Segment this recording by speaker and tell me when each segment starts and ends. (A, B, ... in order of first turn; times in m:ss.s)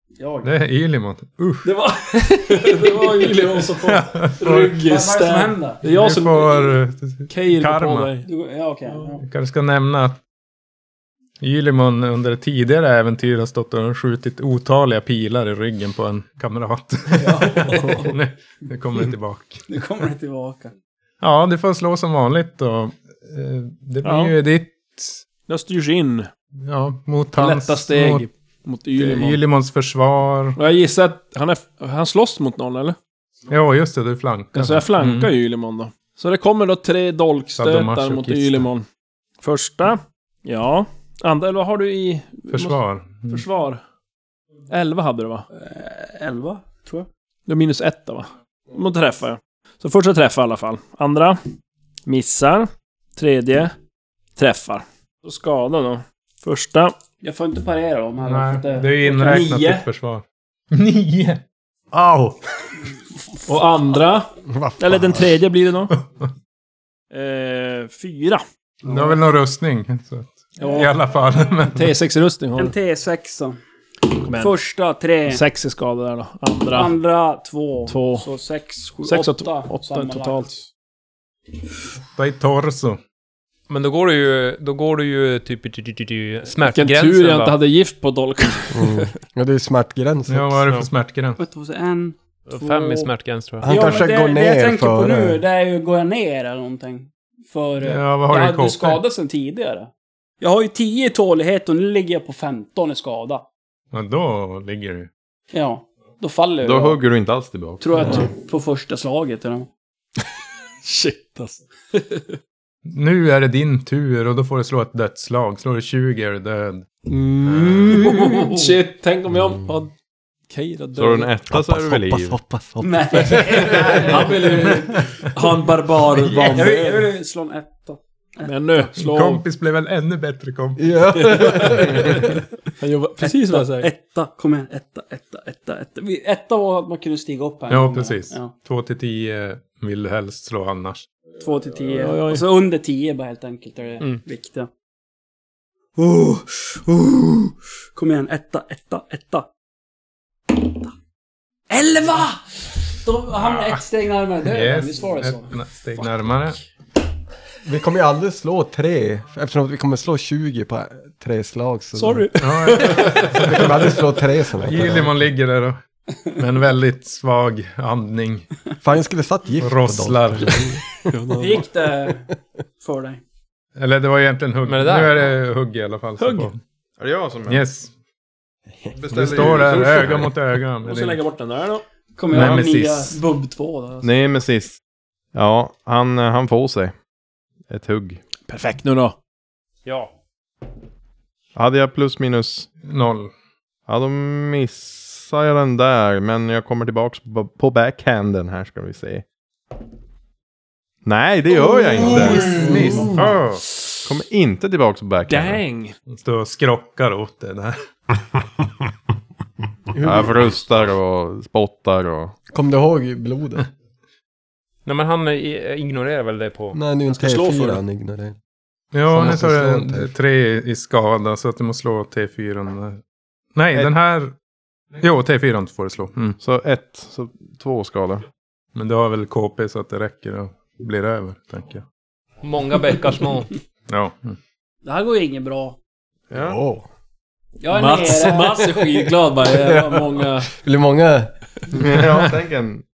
0:00.2-0:00.5 A
0:00.4-0:01.7 B
0:01.7-0:06.8 C
0:02.7-0:03.6 A
0:03.8-0:04.8 B
0:04.5-0:05.8 A
0:05.8-0:08.1 B
0:07.3-0:08.2 C
0:08.2-0:09.2 A
0:09.2-0:10.2 B
0:11.4-0:19.6 B
0:17.2-0:18.1 A
0:19.7-0:20.7 A
0:21.2-0:25.2 B
0:24.0-0:24.4 C
0:25.5-0:26.3 C
0:26.6-0:28.2 B
0:27.3-0:29.4 C
0:29.0-0:30.6 B
0:30.6-0:33.0 C
0:33.5-0:35.3 B
0:34.5-0:38.8 C
0:37.6-0:38.7 B
0:39.4-0:43.8 C
0:42.5-0:43.4 B
0:44.7-0:45.4 C
0:45.5-0:47.1 A
0:47.5-0:51.4 C
0:52.0-0:53.7 C
0:54.4-0:56.9 C
0:57.2-0:59.5 A
0:58.2-1:02.4 B
0:59.1-0:59.9 C
1:03.5-1:05.9 C
1:04.4-1:05.4 D
1:07.1-1:08.4 C
1:08.8-1:09.2 A
1:08.8-1:11.9 B
1:10.6-1:10.9 A
1:10.6-1:10.9 C
1:11.6-1:12.7 C
1:12.6-1:13.6 A
1:14.1-1:15.4 A
1:14.2-1:14.6 C
1:15.2-1:17.0 C
1:16.7-1:20.5 A
1:17.9-1:18.3 C
1:19.0-1:20.7 C
1:22.2-1:23.0 B
1:23.7-1:27.6 E
1:26.6-1:29.1 C
1:28.7-1:30.7 D
1:30.3-1:31.4 B
1:31.4-1:33.1 A
1:32.5-1:34.0 E
1:33.6-1:35.4 D
1:33.6-1:39.9 A
1:37.8-1:39.0 B
1:40.4-1:43.4 A
1:43.9-1:45.1 B
1:45.5-1:47.0 A
1:46.6-1:47.9 F
1:47.8-1:49.7 A
1:50.8-1:52.2 C
1:52.8-1:56.9 B
1:57.1-1:59.9 C
1:57.4-1:58.1 B
1:57.9-1:58.8 A
2:00.5-2:01.4 C
2:00.9-2:02.4 F
2:01.5-2:03.9 D
2:02.8-2:05.0 A
2:03.4-2:07.1 C
2:06.2-2:08.9 A
2:08.4-2:09.4 C
2:09.0-2:11.0 B
2:10.8-2:12.2 D
2:11.1-2:12.2 C
2:12.8-2:13.9 C
2:13.2-2:18.5 A
2:17.7-2:21.0 B
2:21.4-2:24.7 A
2:21.9-2:22.4 C
2:26.0-2:29.5 A
2:30.5-2:30.9 A
2:31.7-2:35.5 A
2:33.4-2:33.8 B
2:34.4-2:36.6 B
2:37.6-2:42.3 D
2:41.9-2:43.7 C
2:42.4-2:43.7 B
2:43.3-2:45.1 D
2:44.6-2:45.8 B
2:46.3-2:48.5 B
2:48.8-2:51.5 D
2:49.6-2:50.7 B
2:51.1-2:51.6 C
2:51.4-2:52.3 A
2:52.8-2:53.2 A
2:53.8-2:56.6 B
2:54.6-2:55.3 E
2:56.2-2:56.5 C
2:57.0-2:57.6 F
2:57.5-2:57.9 B
2:58.8-3:00.0 D
2:59.0-3:00.3 F
2:59.1-3:01.2 B
3:00.8-3:01.8 C
3:02.2-3:04.1 A
3:02.3-3:02.6 F
3:02.3-3:03.2 B
3:04.0-3:04.8 F
3:05.3-3:06.9 F
3:07.7-3:08.2 F
3:08.5-3:09.2 C
3:09.8-3:10.1 E
3:11.5-3:12.7 F
3:12.8-3:13.3 B
3:13.9-3:19.2 F
3:21.0-3:22.7 F
3:21.7-3:23.2 C
3:22.3-3:23.1 A
3:22.6-3:23.6 B
3:22.6-3:23.1 D
3:24.0-3:25.6 F
3:25.2-3:26.0 C
3:26.1-3:27.8 B
3:29.9-3:30.3 D
3:30.0-3:32.4 F
3:32.5-3:33.6 D
3:34.8-3:36.8 E
3:36.7-3:38.4 D
3:37.1-3:37.8 C
3:38.9-3:43.0 B
3:39.1-3:40.1 D
3:43.5-3:44.3 B
3:45.0-3:46.4 B
3:46.4-3:48.2 F
3:48.7-3:51.8 B
3:52.4-3:53.5 E
3:53.9-3:54.4 B
3:54.8-3:55.8 A
3:56.3-3:56.6 F
3:56.3-3:56.8 D
3:57.6-3:58.8 A
3:57.7-4:00.5 C
3:59.6-3:59.9 D
4:00.5-4:02.0 D
4:01.7-4:02.8 F